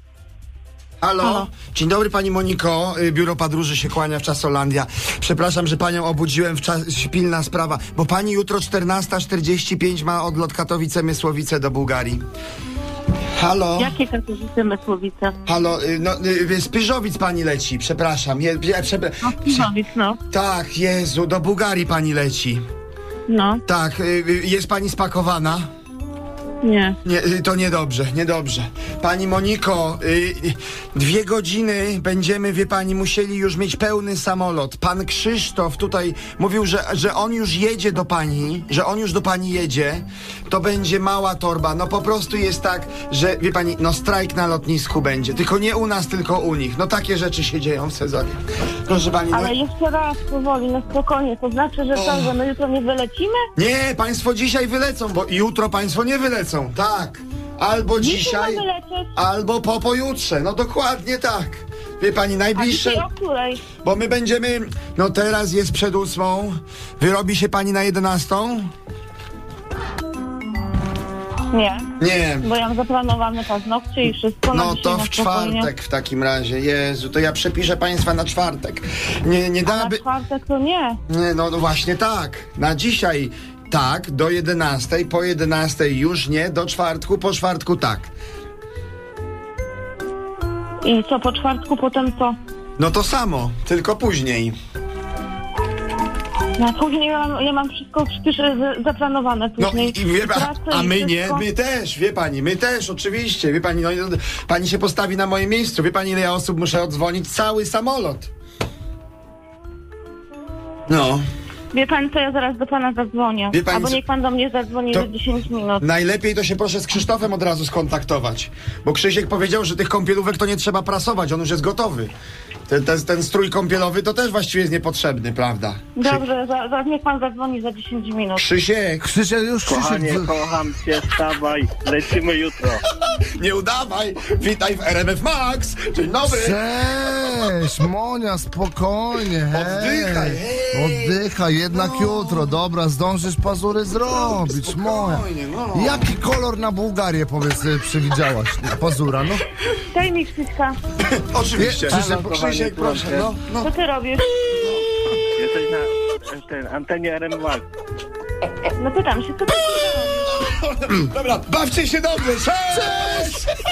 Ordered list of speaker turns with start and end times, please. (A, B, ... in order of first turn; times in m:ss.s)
0:01.0-0:12.2 A
0:01.2-0:01.5 B
0:13.3-0:14.0 A
0:13.8-0:15.4 B
0:15.5-0:19.7 A
0:19.2-0:20.2 B
0:20.3-0:22.6 A
0:23.3-0:23.6 B
0:23.7-0:25.7 A
0:26.6-0:27.0 B
0:27.0-0:49.5 A
0:49.3-0:53.4 B
0:52.0-0:52.3 A
0:53.6-0:58.6 A
0:58.0-0:59.1 B
0:59.2-1:03.1 A
1:02.6-1:03.6 B
1:03.8-1:08.7 A
1:11.5-1:11.9 B
1:12.0-1:12.5 A
1:12.4-1:15.7 B
1:14.5-1:20.0 A
1:19.6-1:21.0 B
1:21.1-1:28.1 A
1:30.8-1:32.4 B
1:32.8-1:34.6 A
1:36.6-1:41.4 B
1:39.6-1:48.3 A
1:50.9-1:51.2 A
1:51.7-1:55.9 B
1:53.5-1:54.0 A
1:55.8-2:02.1 A
2:02.7-2:06.2 A
2:06.0-2:08.4 B
2:08.4-2:09.1 A
2:09.0-2:10.3 C
2:09.6-2:12.8 D
2:12.9-2:16.6 A
2:16.2-2:29.4 C
2:19.5-2:22.6 A
2:24.1-2:26.1 A
2:29.8-2:30.8 B
2:31.1-2:33.7 A
2:31.6-2:32.4 C
2:31.9-2:33.4 D
2:33.6-2:34.3 B
2:35.4-2:37.6 D
2:38.6-2:40.4 B
2:40.7-2:43.5 A